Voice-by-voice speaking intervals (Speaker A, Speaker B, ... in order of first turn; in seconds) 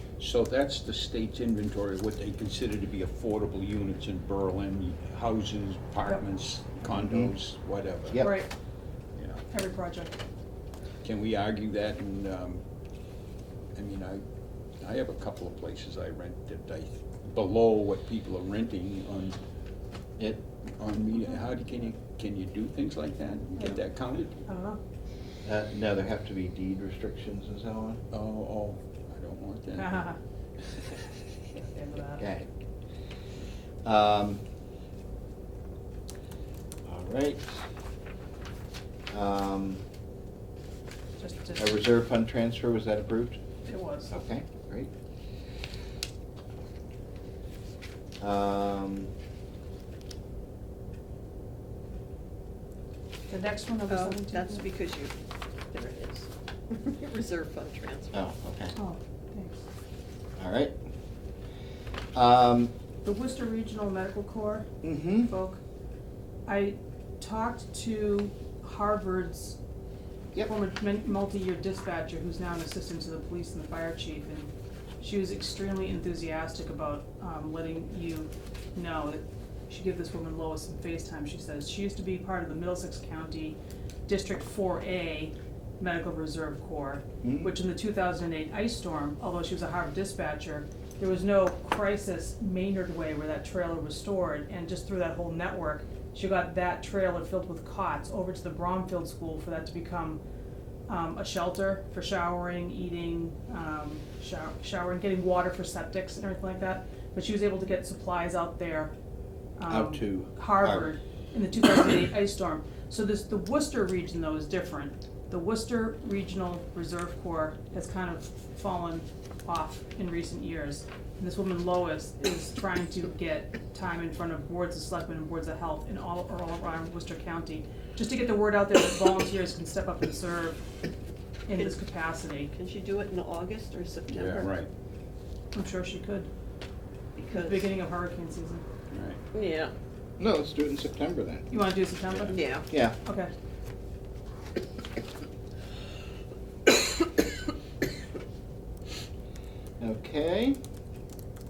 Speaker A: 0.2-8.2, 9.2-9.4, 11.0-12.6, 13.7-14.2, 14.8-19.4, 20.8-24.4, 28.1-30.0, 134.1-134.7, 138.9-139.2
Speaker B: 6.9-7.3, 8.1-8.4, 25.4-28.0, 32.2-32.5, 33.8-34.4, 36.8-37.6, 39.1-39.8, 41.6-43.4, 44.1-44.9, 48.2-49.1, 58.1-58.8, 60.4-60.8, 62.1-62.7, 64.8-65.3, 87.2-87.5, 109.7-110.9, 140.2-141.5, 142.7-143.0, 149.8-150.6
Speaker C: 8.2-8.5, 9.5-10.2, 24.4-24.8, 29.8-30.2, 31.5-32.2, 41.2-41.8, 43.6-44.1, 53.3-54.6, 58.7-59.6, 63.0-64.7, 65.2-65.6, 66.5-69.6, 70.4-100.2, 100.9-108.9, 109.6-130.6, 131.5-132.5, 135.5-136.3, 137.3-138.6, 141.5-142.4, 143.0-143.3
Speaker D: 53.9-55.1, 55.7-58.2, 132.5-134.5, 137.2-137.7, 139.3-139.7, 142.3-142.7